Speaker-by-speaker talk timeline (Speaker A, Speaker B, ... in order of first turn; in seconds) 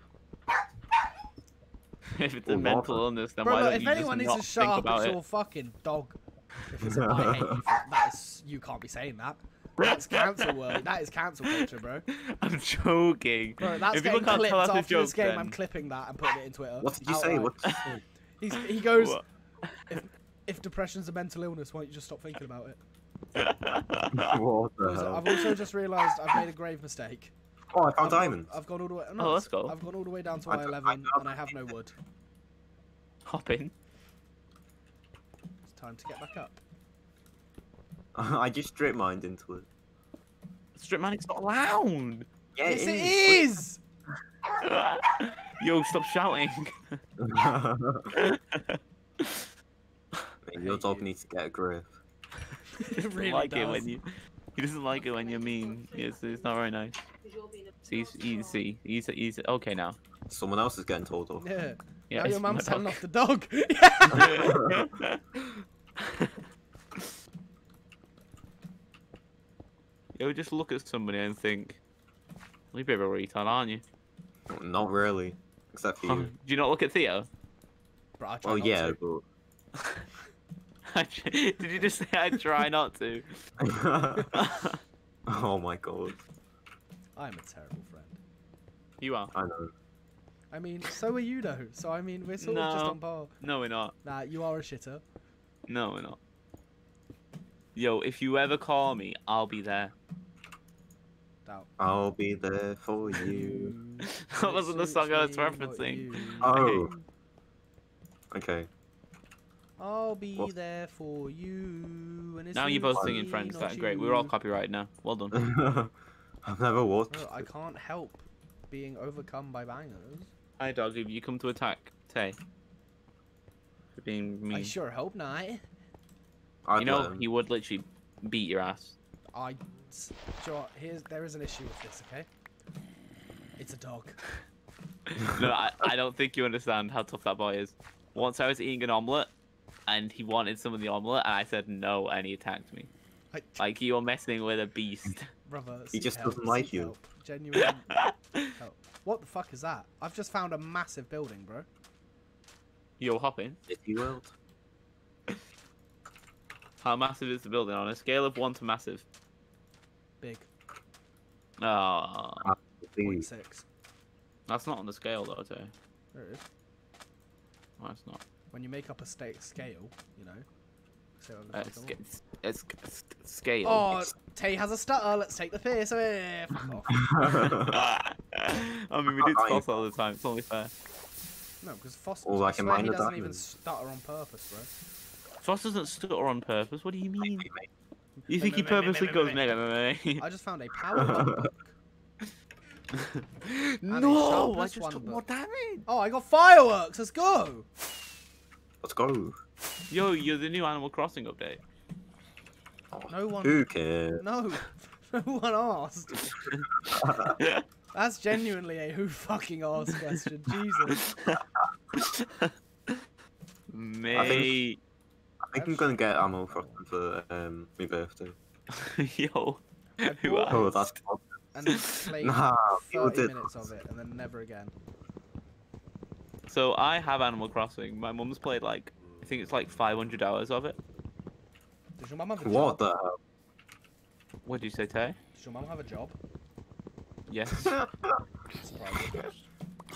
Speaker A: 2.1-5.2, 9.8-10.8, 11.5-15.6, 18.9-19.9, 23.4-24.4, 29.2-29.8, 33.3-33.7, 40.8-42.3, 44.6-47.0, 48.1-49.5, 53.2-54.0, 54.6-57.1, 57.8-60.0, 62.1-63.0, 64.1-66.3, 70.2-71.8, 72.7-73.8, 76.0-77.3, 80.9-83.3, 84.3-84.8, 89.0-89.3, 92.4-93.9, 95.7-96.2, 97.8-99.9, 104.0-106.9, 112.5-115.4, 120.6-122.4, 124.0-124.7, 126.8-128.9, 135.2-139.3, 139.9-142.9, 143.6-145.3, 147.6-148.4, 153.0-153.6, 156.8-159.1, 161.6-162.5, 164.5-165.7, 167.8-168.2, 171.5-174.1, 176.6-180.7, 185.4-187.5, 188.3-190.2, 192.9-195.8, 199.9-201.6, 206.5-207.6, 210.9-211.4, 212.0-213.0, 213.7-214.8, 218.7-220.7, 226.5-230.8, 234.5-235.2, 237.3-237.8
Speaker B: 2.5-3.0, 6.9-7.5, 16.8-18.0, 24.1-25.3, 27.7-28.5, 30.5-31.3, 38.1-39.7, 42.5-43.5, 47.2-48.1, 50.5-52.0, 60.3-61.5, 74.5-76.3, 78.4-79.2, 83.6-84.3, 85.3-86.2, 89.3-89.7, 101.8-103.7, 106.4-106.9, 108.3-108.7, 112.9-113.2, 115.3-115.9, 116.5-117.4, 126.7-127.3, 145.9-146.9, 153.7-154.3, 162.4-163.3, 177.2-177.6, 179.2-179.9, 182.2-183.4, 187.2-187.7, 191.0-191.5, 198.8-199.4, 202.9-204.2, 206.9-207.3, 214.1-214.6, 215.4-218.4, 220.5-221.3, 222.2-223.7, 232.4-233.2, 237.5-238.2
Speaker C: 3.4-12.1, 13.6-17.6, 18.4-19.2, 19.9-22.8, 24.8-27.3, 28.0-31.9, 35.7-36.6, 42.6-43.8, 50.6-51.1, 52.8-53.9, 61.4-64.6, 78.2-79.0, 87.2-88.2, 90.5-93.3, 94.0-95.0, 101.5-101.7, 103.1-106.6, 109.8-114.3, 117.1-120.3, 124.5-125.6, 129.3-132.3, 133.6-134.2, 143.3-143.6, 145.5-151.7, 160.2-160.5, 163.0-163.7, 166.1-166.4, 168.5-170.5, 171.2-172.0, 173.6-177.1, 181.6-184.7, 188.2-189.4, 190.2-191.8, 193.9-195.2, 195.9-197.7, 203.1-206.3, 207.9-211.1, 214.2-214.5, 215.5-216.8, 220.0-220.8, 221.5-224.7, 232.0-232.8, 235.3-236.2, 238.6-239.2